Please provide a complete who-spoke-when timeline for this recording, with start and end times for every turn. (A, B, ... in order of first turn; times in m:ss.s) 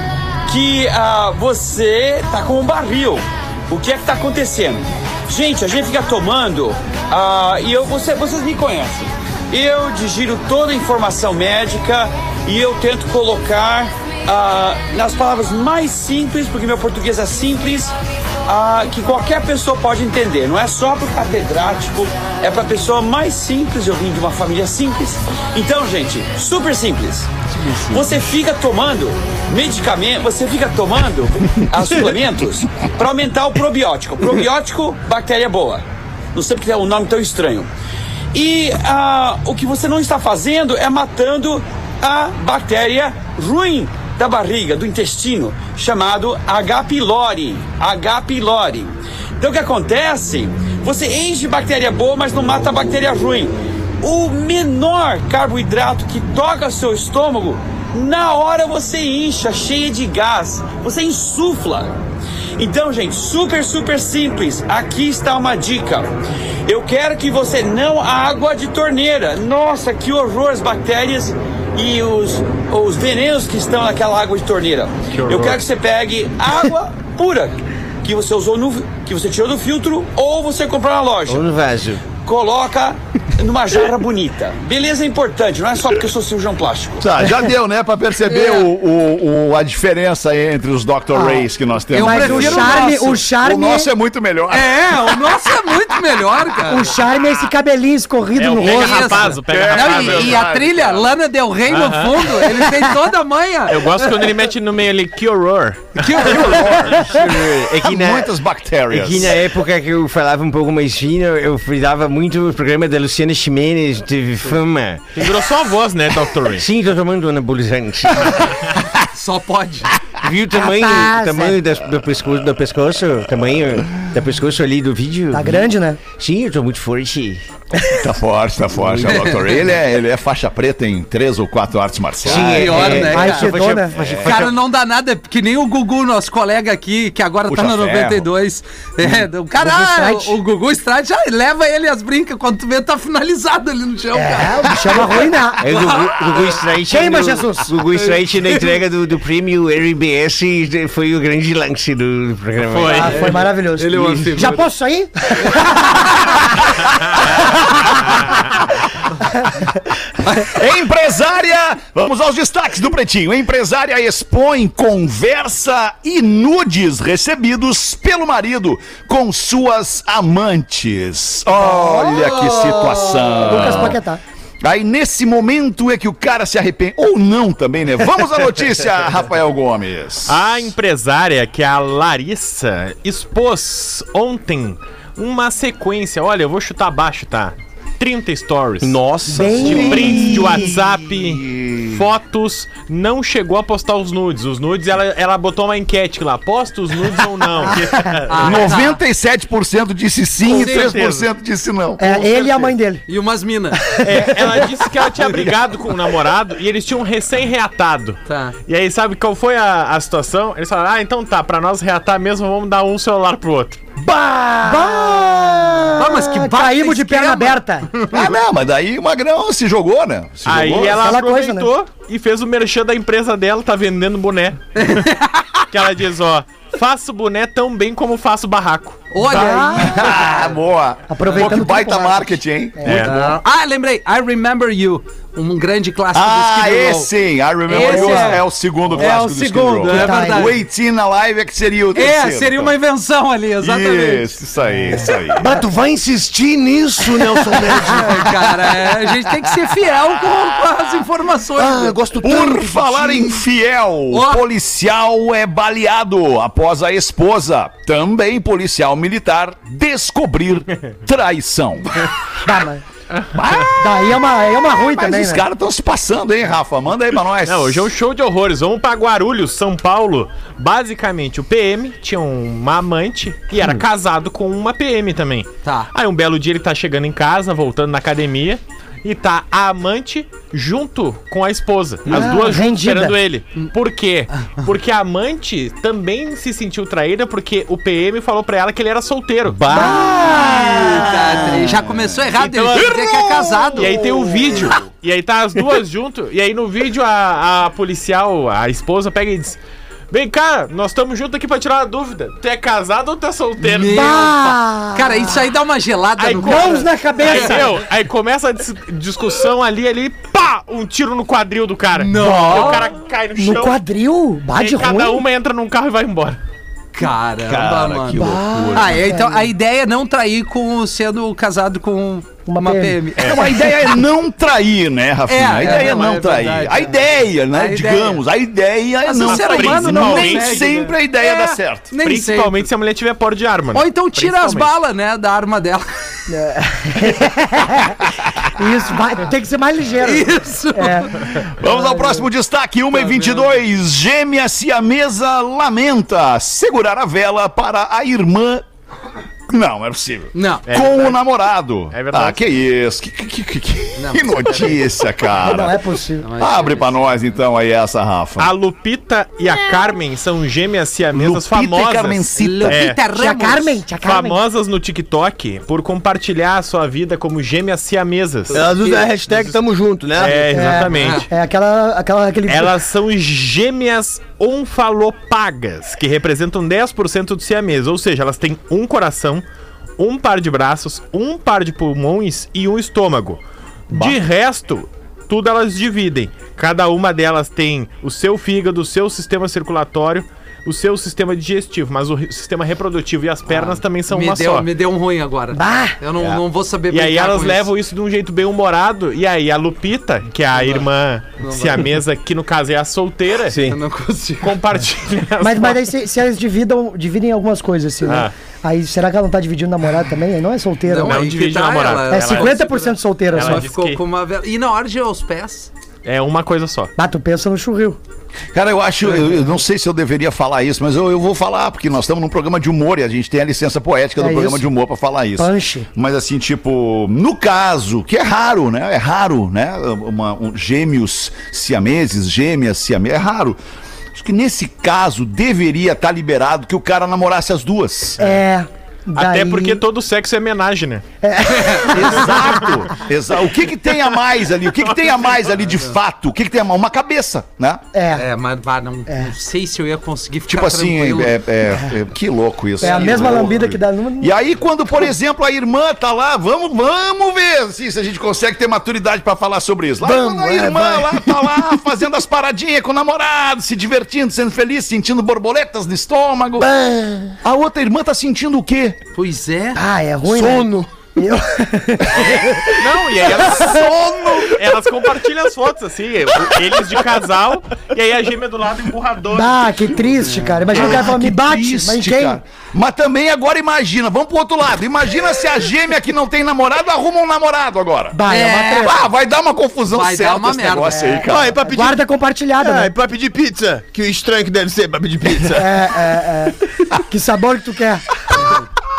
0:00.5-0:17.9 A
0:18.5-0:27.3 A
0:27.6-0:28.0 B
0:27.8-0:37.7 A
0:38.3-1:01.9 A
1:02.6-1:06.1 A
1:06.6-1:21.4 A
1:15.1-1:15.6 C
1:21.3-1:22.0 B
1:22.2-1:27.1 A
1:27.0-1:35.4 D
1:28.3-1:28.7 E
1:31.1-1:33.9 F
1:31.9-1:33.2 E
1:34.5-1:36.9 E
1:36.7-1:39.3 F
1:38.4-1:40.4 C
1:38.6-1:44.2 E
1:39.4-1:41.1 D
1:41.7-1:42.6 C
1:43.7-1:46.0 C
1:46.0-1:47.2 E
1:46.2-1:47.1 D
1:47.0-1:48.3 B
1:47.8-1:49.3 D
1:48.9-1:55.2 B
1:55.1-1:56.6 C
1:56.5-1:58.8 B
1:59.1-1:59.9 E
2:00.2-2:07.4 B
2:00.5-2:01.6 F
2:05.3-2:06.0 F
2:07.8-2:13.1 D
2:08.8-2:09.3 B
2:09.1-2:09.6 E
2:12.2-2:14.5 B
2:12.3-2:13.5 E
2:13.0-2:14.0 F
2:13.9-2:14.4 D
2:14.2-2:26.5 E
2:17.5-2:18.3 D
2:19.6-2:20.4 F
2:24.1-2:25.9 F
2:25.6-2:33.4 B
2:26.9-2:27.8 F
2:27.9-2:28.7 E
2:32.7-2:33.4 C
2:32.9-2:36.4 F
2:33.1-2:34.6 E
2:34.0-2:34.5 B
2:35.5-2:35.8 E
2:40.5-2:54.0 D
2:51.6-2:53.9 E
2:53.4-2:54.2 F
2:54.6-3:00.7 D
3:00.2-3:18.7 C
3:08.8-3:10.5 B
3:09.3-3:10.7 F
3:09.8-3:12.0 D
3:18.3-3:19.0 E
3:18.4-3:22.7 D
3:20.4-3:21.3 C
3:20.5-3:20.9 E
3:22.0-3:23.0 F
3:23.1-3:23.8 E
3:23.8-3:24.7 F
3:24.0-3:33.8 C
3:28.3-3:28.6 E
3:34.6-3:38.0 F
3:36.0-3:37.6 E
3:38.1-3:41.2 D
3:40.4-3:45.1 C
3:40.9-3:41.7 F
3:44.8-3:45.6 E
3:45.7-3:49.1 C
3:49.1-3:50.3 E
3:49.2-3:50.5 F
3:49.2-3:53.1 D
3:51.1-3:53.3 F
3:51.2-3:51.5 E
3:52.8-3:53.1 C
3:53.1-3:57.1 E
3:56.1-4:02.7 D
3:57.7-4:00.6 E
3:57.7-3:58.4 F
3:59.8-4:00.5 F
4:01.9-4:04.3 E
4:03.6-4:05.5 D
4:05.4-4:08.5 G
4:07.9-4:11.9 E
4:11.6-4:13.4 G
4:12.2-4:22.1 D
4:14.1-4:14.4 E
4:22.4-4:22.8 F
4:23.1-4:23.4 C
4:23.3-4:27.9 D
4:23.6-4:25.4 F
4:27.4-4:50.0 C
4:35.6-4:35.9 E
4:42.1-4:43.2 F
4:42.1-4:42.4 B
4:49.4-4:50.7 B
4:49.7-4:51.8 F
4:50.7-4:54.0 E
4:52.7-4:53.9 D
4:53.8-4:59.6 C
5:00.1-5:04.6 C
5:03.6-5:07.6 E
5:03.8-5:05.4 F
5:06.2-5:13.8 C
5:06.4-5:07.7 F
5:11.9-5:12.9 E
5:12.2-5:12.8 F
5:13.4-5:15.2 F
5:14.5-5:16.4 C
5:16.9-5:23.9 E
5:17.4-5:19.0 D
5:18.1-5:19.5 F
5:22.4-5:23.0 F
5:23.2-5:23.4 C
5:23.2-5:31.9 D
5:25.3-5:26.9 E
5:27.5-5:28.2 E
5:29.0-5:32.6 E
5:29.2-5:30.7 C
5:32.0-5:34.7 C
5:33.7-5:36.0 E
5:36.3-5:42.3 F
5:40.0-5:41.4 E
5:41.5-5:48.6 D
5:42.9-5:43.6 E
5:49.5-5:55.8 D
5:50.3-5:50.6 E
5:50.7-5:51.2 C
5:51.9-5:52.6 C
5:54.0-5:54.9 E
5:55.4-5:56.3 F
5:56.2-5:57.0 E
5:56.4-5:58.5 D
5:58.4-6:03.0 C
6:01.1-6:02.8 D
6:02.4-6:03.8 E
6:03.1-6:04.4 F
6:04.0-6:08.6 C
6:08.5-6:09.5 E
6:08.5-6:10.5 G
6:10.2-6:11.3 C
6:10.5-6:12.8 F
6:10.9-6:11.2 E
6:12.5-6:19.4 C
6:20.0-6:34.7 C
6:33.5-6:37.6 E
6:35.5-6:36.0 F
6:36.9-6:43.6 C
6:40.5-6:40.9 E
6:41.4-6:41.9 E
6:43.5-6:43.8 B
6:43.7-6:44.6 E
6:44.4-6:45.8 C
6:45.4-6:51.2 F
6:48.0-6:48.3 C
6:50.8-6:55.7 E
6:51.0-6:52.6 C
6:52.1-6:53.6 F
6:53.3-6:54.0 C
6:56.0-6:56.9 C
6:57.0-6:58.0 F
6:58.5-7:13.6 D
7:04.2-7:04.7 F
7:05.4-7:05.9 F
7:14.1-7:18.2 D
7:18.2-7:19.8 F
7:19.1-7:21.0 C
7:21.2-7:22.6 F
7:21.5-7:21.8 E
7:21.9-7:27.8 D
7:25.0-7:25.4 C
7:27.9-7:28.2 F
7:28.1-7:31.4 E
7:29.1-7:29.3 F
7:30.5-7:46.7 D
7:32.8-7:34.3 F
7:32.8-7:33.3 E
7:40.0-7:41.2 G
7:46.6-7:47.3 G
7:47.4-7:49.0 D
7:49.1-7:49.8 E
7:49.8-7:53.7 F
7:50.2-7:50.9 G
7:52.2-7:53.9 C
7:53.5-7:54.8 D
7:54.5-8:00.0 C
7:59.3-8:02.4 F
8:00.2-8:00.6 E
8:00.7-8:08.2 D
8:08.1-8:09.0 F
8:08.3-8:08.9 E
8:08.8-8:11.6 D
8:09.9-8:11.2 E
8:10.9-8:12.9 F
8:11.3-8:12.0 G
8:12.6-8:15.7 G
8:15.5-8:18.0 F